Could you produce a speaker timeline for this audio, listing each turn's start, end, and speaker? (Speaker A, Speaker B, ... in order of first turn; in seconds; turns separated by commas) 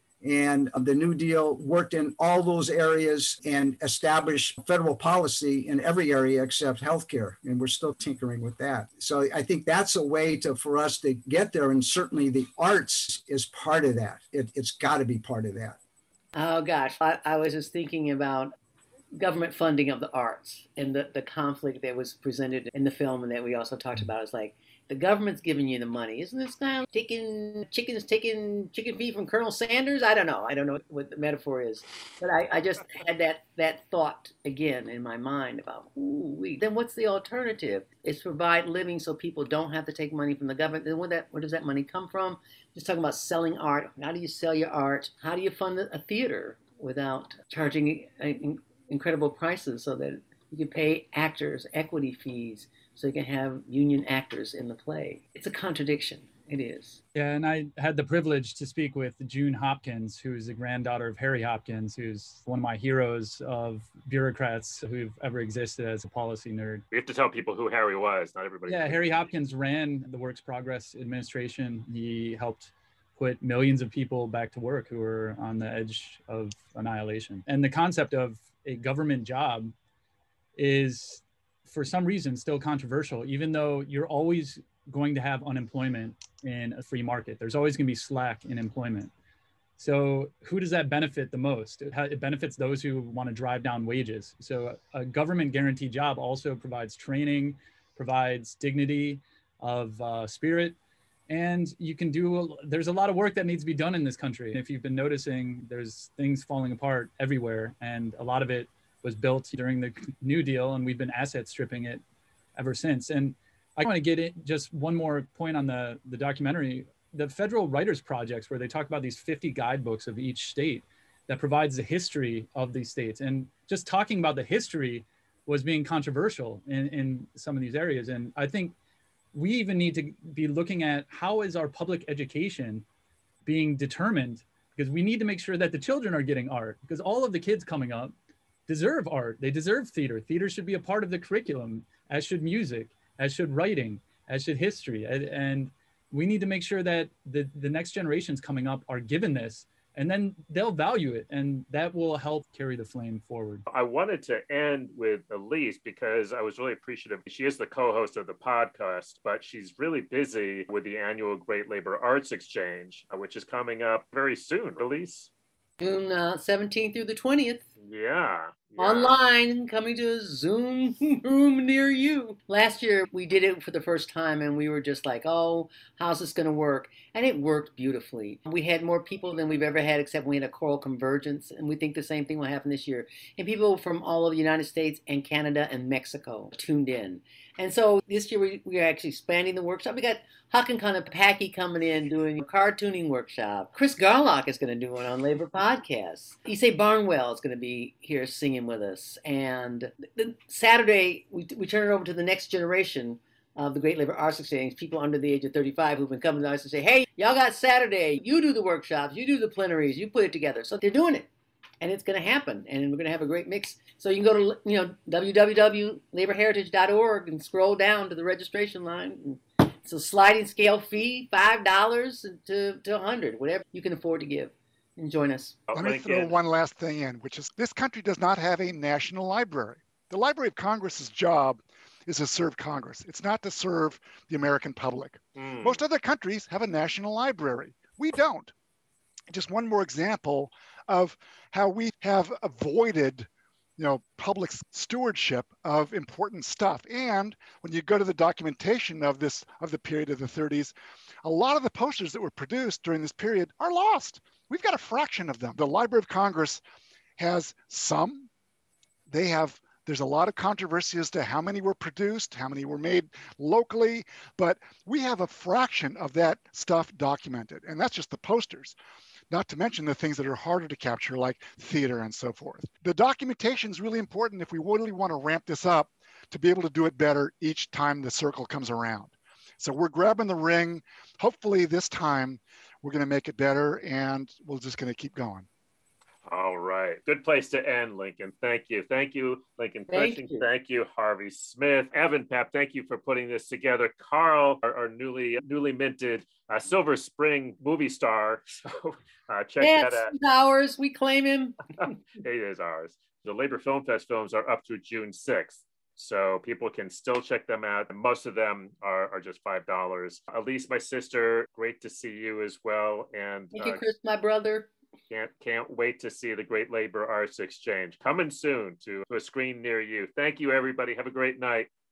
Speaker A: 0.2-15.8, Speaker B: 16.3-18.5, Speaker B: 19.1-57.0, Speaker C: 57.1-66.8, Speaker D: 66.9-69.3, Speaker C: 68.7-79.7, Speaker C: 80.5-89.1, Speaker C: 89.8-100.8, Speaker C: 101.3-112.0, Speaker C: 112.5-128.7, Speaker C: 129.3-132.8, Speaker C: 133.4-138.1, Speaker C: 138.7-153.6, Speaker D: 153.7-165.3, Speaker B: 165.8-167.6, Speaker D: 167.8-169.1, Speaker B: 168.8-211.3, Speaker B: 211.8-225.6, Speaker D: 225.7-226.3, Speaker E: 225.7-238.5, Speaker D: 235.3-235.8, Speaker E: 239.3-250.7, Speaker E: 251.2-256.6, Speaker E: 257.2-258.3, Speaker E: 259.1-268.8, Speaker E: 269.3-285.5, Speaker D: 286.3-300.1, Speaker B: 289.9-290.4, Speaker B: 299.6-301.6, Speaker D: 302.2-313.8, Speaker B: 313.5-314.7, Speaker D: 315.1-321.7